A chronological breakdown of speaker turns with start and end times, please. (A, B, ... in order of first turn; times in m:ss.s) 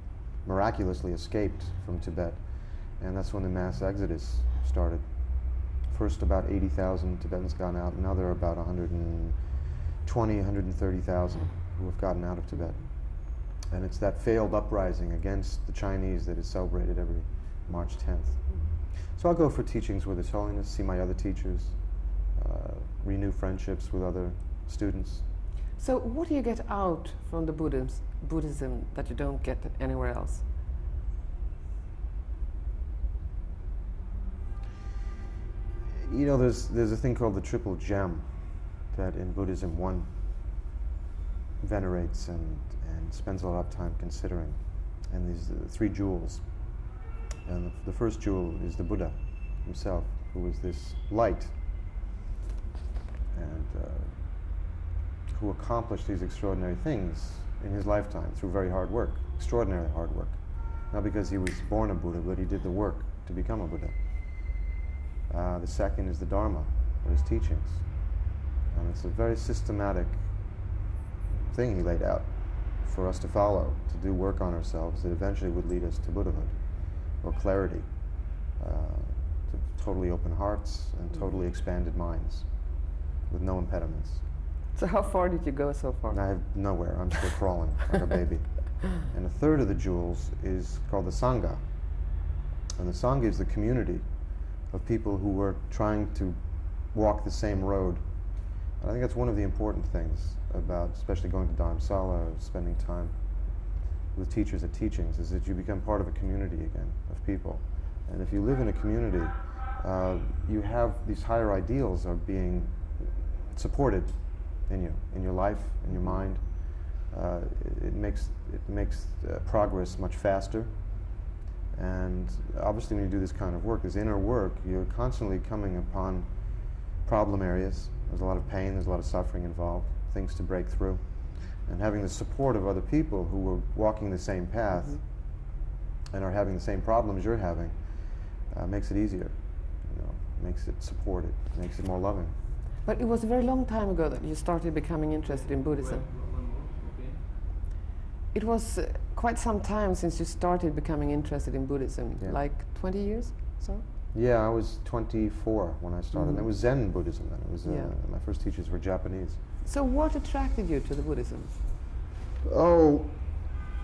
0:00.4-0:18.4 A
0:19.0-0:21.8 A
0:22.3-0:25.2 A
0:25.8-0:30.4 B
0:35.9-0:40.1 A
0:41.6-0:46.7 A
0:47.4-0:51.5 A
0:53.3-0:54.5 A
0:55.3-1:04.6 A
1:05.3-1:08.1 A
1:08.7-1:10.2 A
1:11.4-1:22.7 A
1:23.2-1:24.2 A
1:24.7-1:26.2 B
1:26.1-1:31.6 A
1:32.8-1:34.1 A
1:34.7-1:38.0 A
1:38.7-1:43.2 A
1:44.1-2:01.0 A
2:01.7-2:15.2 A
2:16.1-2:22.3 A
2:22.8-2:26.0 B
2:25.2-2:27.3 C
2:28.3-2:33.8 B
2:34.1-2:39.4 A
2:36.1-2:36.5 B
2:37.6-2:37.9 B
2:39.6-2:41.6 B
2:42.4-2:43.2 A